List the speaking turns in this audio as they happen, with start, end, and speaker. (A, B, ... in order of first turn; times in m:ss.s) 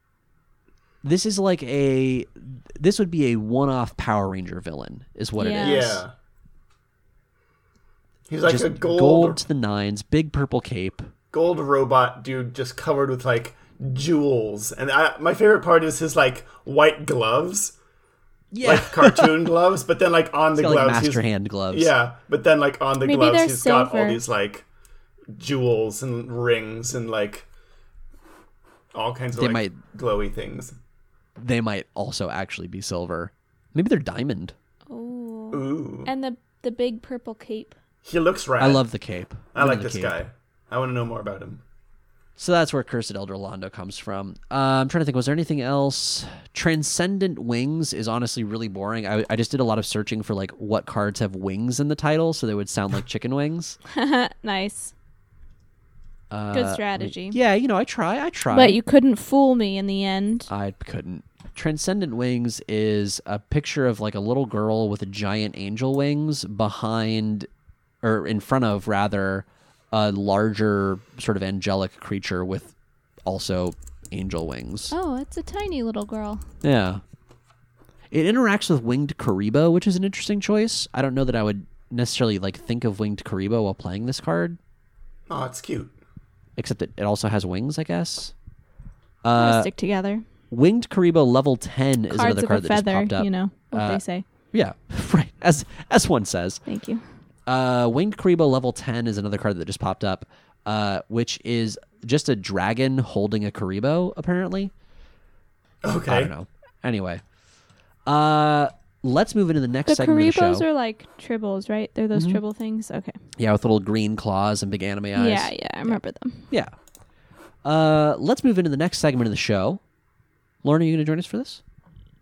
0:01.0-0:06.0 A
0:05.4-0:05.9 B
0:05.6-0:06.1 C
0:08.3-0:09.4 C
0:08.4-0:11.1 A
0:11.3-0:17.8 C
0:18.5-0:19.3 A
0:18.6-0:24.7 C
0:20.6-0:21.9 A
0:23.0-0:24.2 B
0:25.3-0:27.5 C
0:28.9-0:30.7 C
0:29.3-0:29.8 A
0:31.4-0:34.5 A
0:34.9-0:37.8 B
0:35.5-0:36.1 C
0:38.0-0:38.8 C
0:38.6-0:40.2 A
0:39.5-0:41.6 C
0:42.4-0:53.8 A
0:53.9-0:54.9 B
0:56.3-0:58.8 A
0:56.5-0:57.4 B
0:58.5-1:00.5 B
1:00.5-1:07.5 A
1:08.0-1:12.7 A
1:13.2-1:14.9 A
1:14.9-1:16.4 B
1:16.6-1:17.0 A
1:18.1-1:24.6 A
1:25.3-1:26.0 C
1:26.6-1:28.3 A
1:29.2-1:29.7 A
1:29.4-1:30.2 B
1:30.5-1:36.6 A
1:32.1-1:34.2 B
1:36.6-1:37.0 B
1:37.5-1:44.7 A
1:45.8-1:46.3 C
1:46.0-1:47.2 A
1:48.1-1:50.6 A
1:49.9-1:53.2 B
1:52.1-1:52.4 A
1:53.4-1:56.7 A
1:55.1-1:56.5 B
1:57.6-1:59.8 A
2:00.6-2:01.6 A